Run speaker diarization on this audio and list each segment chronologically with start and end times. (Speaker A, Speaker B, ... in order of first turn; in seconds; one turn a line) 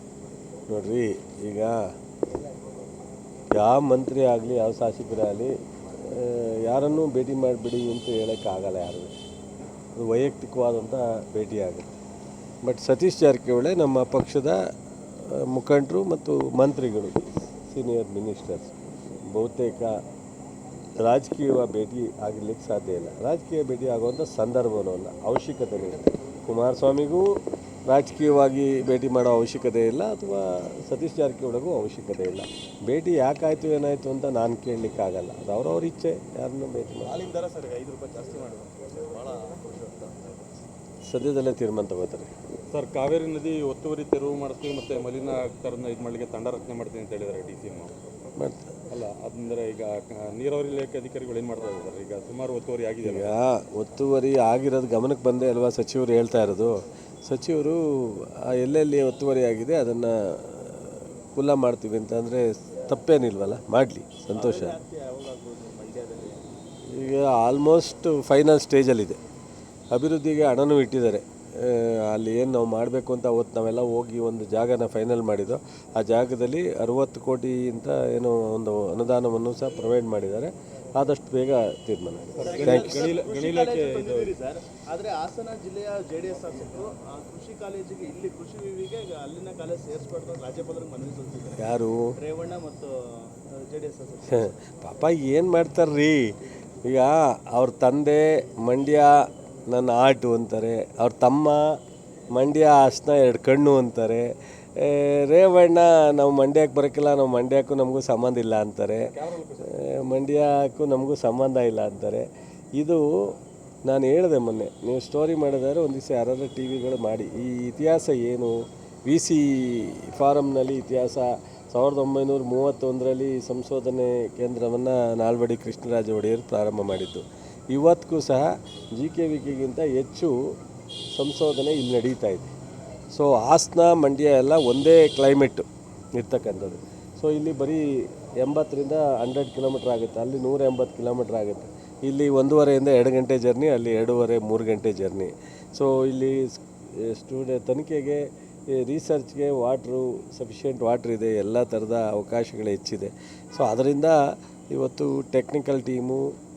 Speaker A: 0.7-1.8
Speaker A: 3.5-9.1
Speaker A: 9.9-12.0
Speaker A: 12.6-14.6
Speaker A: 15.1-18.8
Speaker A: 19.3-20.0
Speaker A: 21.0-27.3
Speaker A: 27.9-37.3
Speaker B: 37.1-40.3
Speaker A: 41.0-42.3
Speaker C: 42.7-47.9
Speaker A: 48.4-48.7
Speaker C: 48.9-53.4
Speaker A: 53.0-64.8
Speaker B: 64.3-66.5
Speaker A: 66.9-69.2
Speaker A: 69.9-83.2
Speaker C: 82.4-84.4
Speaker B: 82.4-91.6
Speaker A: 91.6-92.1
Speaker B: 92.2-94.5
Speaker A: 94.3-101.8
Speaker A: 102.3-130.4
Speaker C: 109.1-109.8
Speaker A: 131.1-132.5
Speaker A: 133.1-154.2
Speaker A: 154.7-156.2